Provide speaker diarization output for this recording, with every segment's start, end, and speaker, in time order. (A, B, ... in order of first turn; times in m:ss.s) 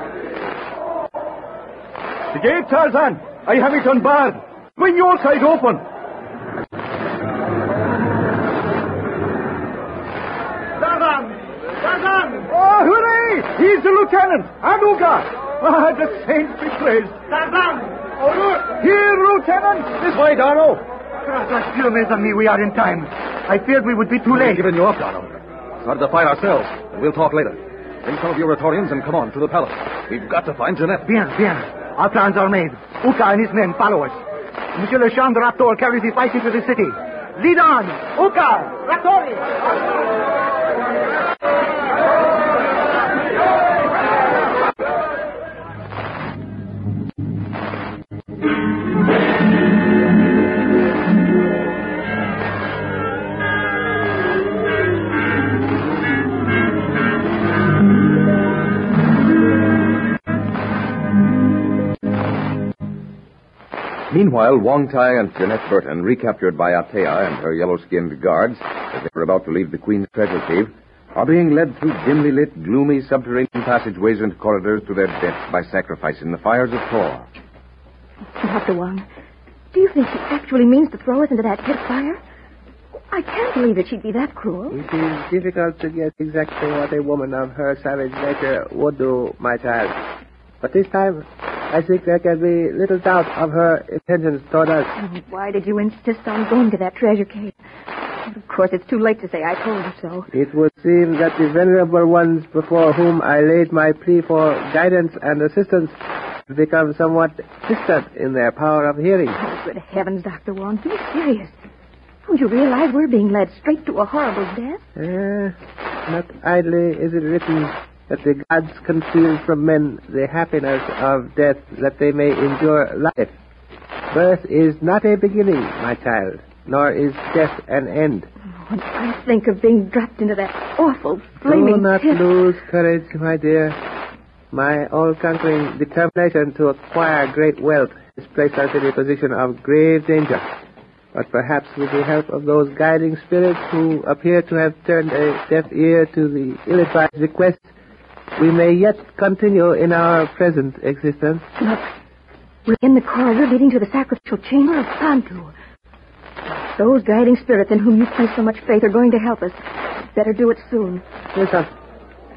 0:02.3-0:05.8 A
0:12.4-0:17.2 A
0:18.6-0:20.1 A
0:21.2-0:24.6 B
0:24.3-0:31.1 C
0:31.0-0:34.2 B
0:34.8-0:39.4 B
1:04.1-1:17.3 D
1:18.4-1:19.0 E
1:19.7-1:22.2 E
1:23.1-1:24.8 E
1:24.7-1:30.0 F
1:30.6-1:34.9 F
1:35.0-1:37.5 E
1:38.2-1:40.3 E
1:40.3-1:46.0 F
1:46.5-1:49.4 F
1:49.4-1:51.5 E
1:52.2-1:54.8 E
1:55.0-1:55.5 F
1:56.1-2:03.3 F
2:04.1-2:08.3 F
2:08.7-2:12.2 E
2:11.4-2:13.8 F
2:14.5-2:20.4 F
2:21.1-2:27.7 F
2:28.4-2:31.5 F
2:32.6-2:35.5 E
2:36.7-2:41.0 E
2:41.3-2:41.7 F